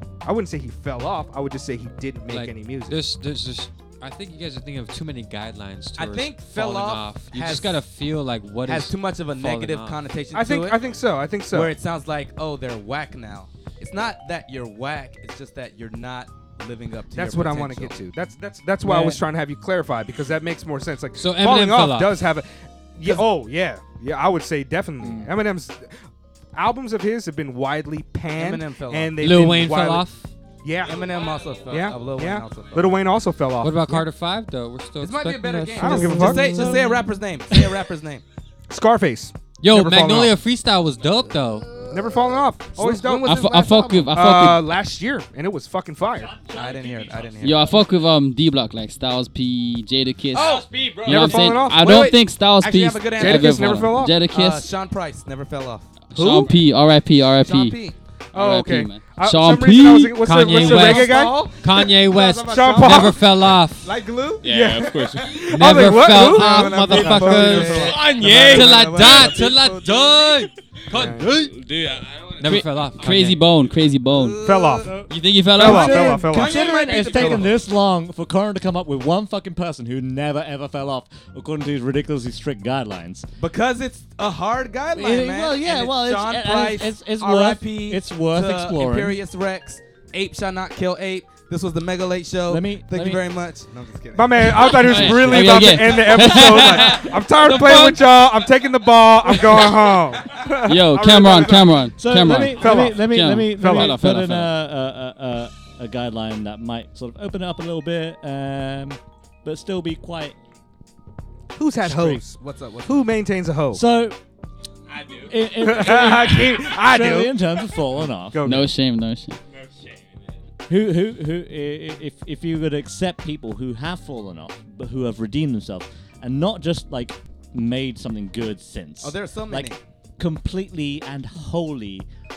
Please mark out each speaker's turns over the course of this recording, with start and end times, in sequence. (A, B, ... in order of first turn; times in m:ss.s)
0:00.2-0:03.0 A
0:02.3-0:10.0 B
0:06.0-0:07.8 C
0:08.7-0:10.8 C
0:10.3-0:11.7 A
0:11.5-0:18.0 C
0:17.1-0:30.1 A
0:18.9-0:19.1 C
0:21.2-0:22.2 B
0:25.0-0:25.3 D
0:28.3-0:29.2 C
0:29.2-0:30.3 B
0:30.6-0:31.1 A
0:30.8-0:33.0 C
0:31.7-0:34.1 A
0:33.6-0:36.0 B
0:35.0-0:38.2 C
0:35.7-0:36.9 E
0:35.8-0:36.6 A
0:38.7-0:40.4 A
0:39.6-0:41.7 B
0:41.9-0:43.5 A
0:42.7-0:44.1 C
0:43.2-0:44.6 E
0:44.1-0:46.3 A
0:46.3-0:47.8 F
0:46.5-0:47.7 C
0:47.4-0:54.7 E
0:50.3-0:50.7 C
0:50.3-0:51.4 F
0:51.0-0:52.2 A
0:51.7-0:55.9 C
0:53.2-0:54.2 A
0:56.1-0:57.8 E
0:56.2-0:56.6 A
0:57.4-0:58.0 C
0:58.3-1:01.4 A
0:58.3-1:00.2 E
1:00.1-1:04.0 B
1:00.5-1:03.2 C
1:02.4-1:03.3 A
1:03.8-1:10.3 C
1:04.4-1:05.4 F
1:04.4-1:08.0 A
1:05.5-1:11.6 B
1:07.7-1:09.4 F
1:10.9-1:11.3 A
1:11.0-1:13.2 F
1:12.4-1:13.4 B
1:12.4-1:14.4 E
1:14.1-1:15.0 C
1:14.4-1:14.9 A
1:14.8-1:23.3 D
1:15.1-1:16.3 E
1:15.6-1:17.4 A
1:15.6-1:17.5 C
1:23.4-1:35.1 C
1:25.0-1:29.2 D
1:32.5-1:33.3 D
1:34.1-1:41.9 A
1:34.8-1:35.7 D
1:34.8-1:37.1 E
1:37.5-1:37.8 B
1:40.6-1:44.6 E
1:42.0-1:50.4 D
1:42.5-1:44.0 A
1:51.6-1:53.8 A
1:51.8-1:53.0 C
1:53.7-1:54.2 D
1:54.9-1:55.5 F
1:55.2-1:58.5 D
1:55.6-1:57.4 A
1:58.3-1:58.7 A
1:58.4-1:59.4 E
1:59.5-2:00.4 F
2:00.7-2:12.1 D
2:09.0-2:09.8 C